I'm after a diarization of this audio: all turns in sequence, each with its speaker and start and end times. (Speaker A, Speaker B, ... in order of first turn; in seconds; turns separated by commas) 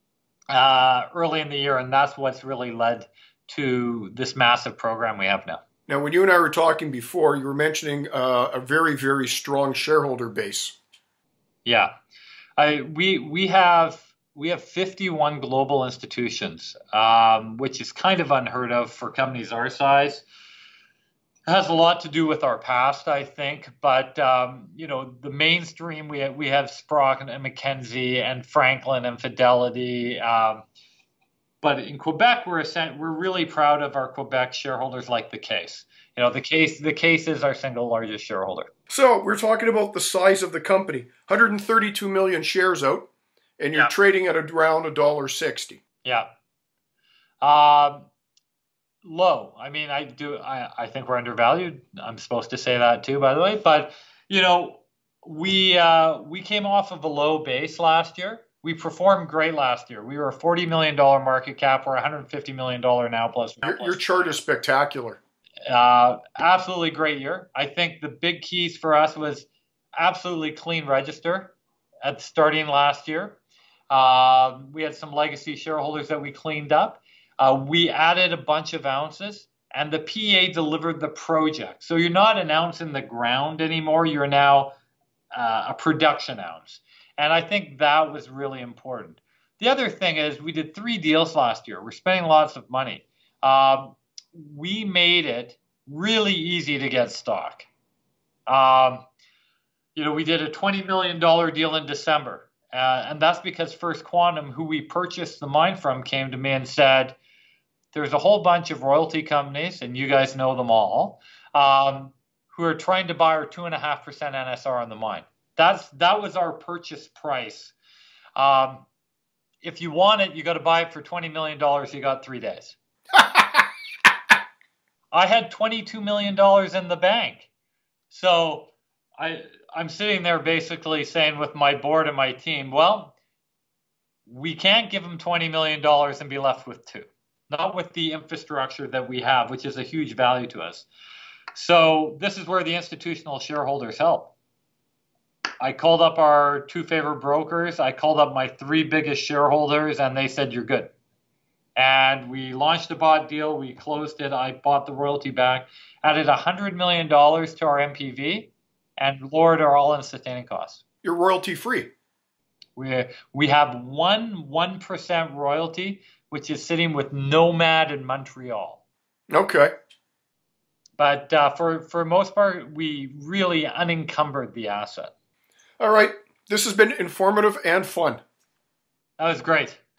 Speaker A: 0.5-5.6, Speaker B: 5.9-10.8, Speaker A: 11.7-11.9, Speaker A: 12.6-20.2, Speaker A: 21.5-30.6, Speaker A: 31.6-38.7, Speaker B: 38.9-45.8, Speaker A: 47.4-48.1, Speaker A: 49.0-64.4, Speaker B: 63.6-65.2, Speaker A: 65.7-73.4, Speaker A: 73.9-84.7, Speaker A: 85.3-97.7, Speaker A: 98.5-99.0, Speaker A: 99.9-107.2, Speaker A: 107.9-117.8, Speaker A: 118.4-118.9, Speaker A: 119.6-122.8, Speaker A: 125.1-127.5, Speaker A: 128.1-133.2, Speaker A: 134.2-140.9, Speaker A: 141.5-144.3, Speaker A: 145.6-150.9, Speaker A: 151.8-160.8, Speaker B: 161.0-161.9, Speaker A: 162.8-168.8, Speaker B: 169.3-169.7, Speaker A: 171.0-175.1, Speaker B: 175.8-178.2, Speaker A: 179.2-179.8